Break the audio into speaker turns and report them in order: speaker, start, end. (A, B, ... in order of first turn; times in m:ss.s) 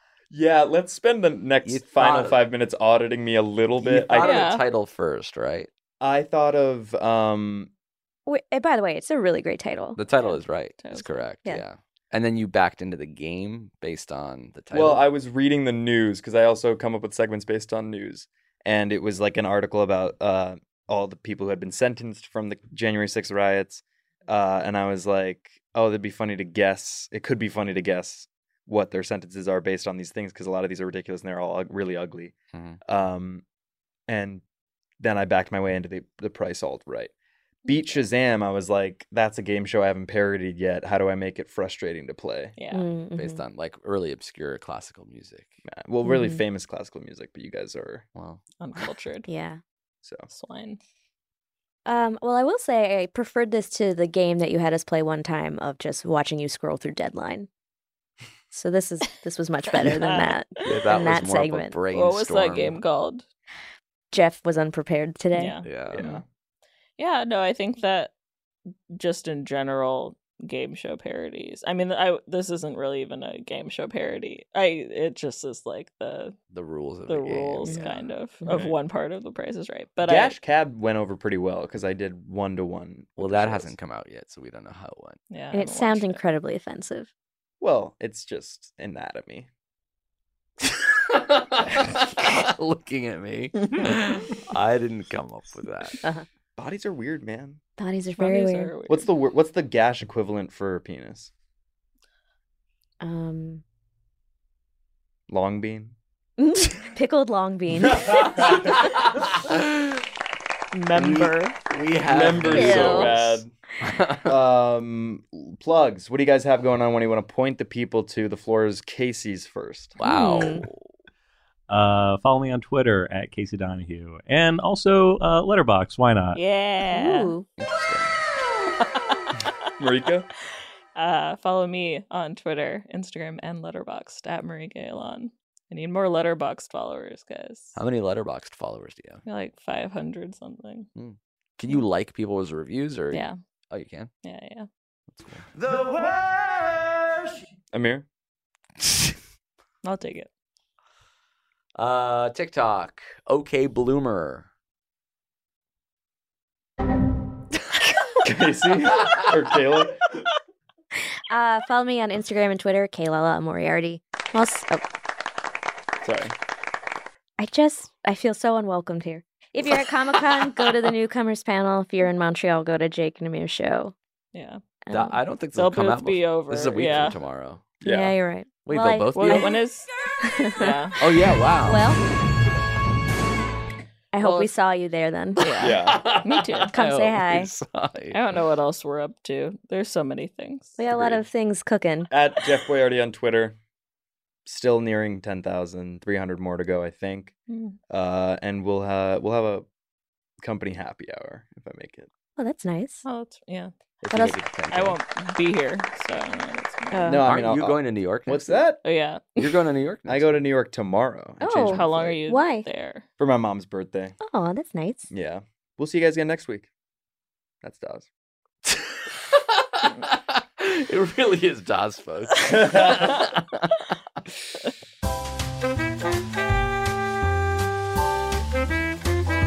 0:00.3-0:04.5 A
0:01.6-0:02.4 B
0:03.8-0:05.7 B
0:04.2-0:04.6 C
0:06.0-0:07.7 A
0:08.2-0:10.0 D
0:10.0-0:15.0 B
0:10.1-0:11.2 C
0:14.7-0:32.3 A
0:32.5-0:32.8 B
0:32.8-0:33.4 A
0:34.1-0:34.4 A
0:35.0-0:37.1 A
0:37.7-0:42.5 A
0:42.6-0:42.8 C
0:42.7-0:43.4 D
0:43.1-0:45.6 B
0:45.6-0:48.0 A
0:46.0-0:46.4 D
0:48.1-0:48.4 B
0:48.6-0:49.3 C
0:49.3-0:49.6 D
0:50.0-0:50.3 A
0:50.3-0:50.8 C
0:51.8-0:57.5 D
0:58.5-1:01.7 D
0:59.7-1:00.4 C
1:00.6-1:02.8 B
1:01.9-1:03.2 C
1:04.1-1:05.6 D
1:05.3-1:06.2 C
1:05.6-1:06.0 B
1:05.9-1:06.2 A
1:07.0-1:08.1 C
1:08.9-1:16.3 C
1:16.5-1:18.0 B
1:17.1-1:20.4 C
1:17.6-1:18.0 D
1:18.4-1:18.8 A
1:20.0-1:23.7 A
1:23.2-1:25.2 B
1:25.3-1:26.2 C
1:25.5-1:27.1 D
1:27.6-1:29.5 A
1:30.6-1:36.0 B
1:36.6-1:37.6 A
1:37.8-1:38.7 D
1:38.2-1:39.1 C
1:38.9-1:41.3 A
1:43.0-1:43.6 D
1:45.3-1:46.0 A
1:46.4-1:48.8 D
1:48.1-1:50.0 B
1:50.7-1:51.5 C
1:50.9-1:54.3 B
1:52.0-1:53.5 A
1:52.5-1:53.2 D
1:54.2-2:00.0 A
2:00.0-2:00.9 B
2:00.0-2:00.6 D
2:01.7-2:06.4 E
2:06.3-2:07.3 C
2:06.9-2:07.5 D
2:07.6-2:08.3 B
2:08.8-2:09.5 C
2:09.8-2:10.3 A
2:10.9-2:17.8 C
2:17.7-2:19.2 B
2:19.2-2:20.9 C
2:21.0-2:24.1 B
2:24.2-2:24.7 C
2:25.1-2:25.5 B
2:27.7-2:28.0 A
2:29.8-2:30.3 C
2:31.8-2:34.5 B
2:38.2-2:40.0 A
2:41.3-2:44.8 D
2:46.0-2:46.3 A
2:47.4-2:53.9 D
2:54.3-2:54.6 C
2:54.8-2:55.2 D
2:54.9-2:57.6 B
2:55.5-2:57.2 C
2:57.8-2:58.2 A
2:57.8-2:59.5 D
2:58.6-2:59.6 B
2:59.2-2:59.9 C
3:00.2-3:00.8 D
3:00.6-3:00.9 C
3:01.0-3:01.8 B
3:01.6-3:02.0 D
3:04.1-3:05.5 D
3:04.2-3:04.5 C
3:05.4-3:06.8 C
3:05.6-3:06.2 A
3:05.7-3:08.2 B
3:06.7-3:07.5 D
3:08.1-3:10.8 C
3:10.8-3:12.1 D
3:10.9-3:11.2 A
3:12.1-3:13.6 A
3:14.4-3:17.3 A
3:17.5-3:17.8 C
3:17.9-3:19.6 A
3:20.4-3:22.1 A
3:22.4-3:23.0 D
3:23.0-3:23.7 C
3:24.0-3:25.0 B
3:24.1-3:24.4 D
3:24.7-3:27.1 C
3:26.9-3:27.3 D
3:27.0-3:28.8 A
3:27.2-3:28.6 B
3:28.8-3:29.5 C
3:29.4-3:30.4 B
3:30.1-3:32.2 A
3:31.4-3:32.7 D
3:31.7-3:33.0 C
3:33.2-3:34.2 A
3:34.2-3:35.1 D
3:35.1-3:36.7 A
3:37.6-3:38.1 A
3:38.6-3:43.8 B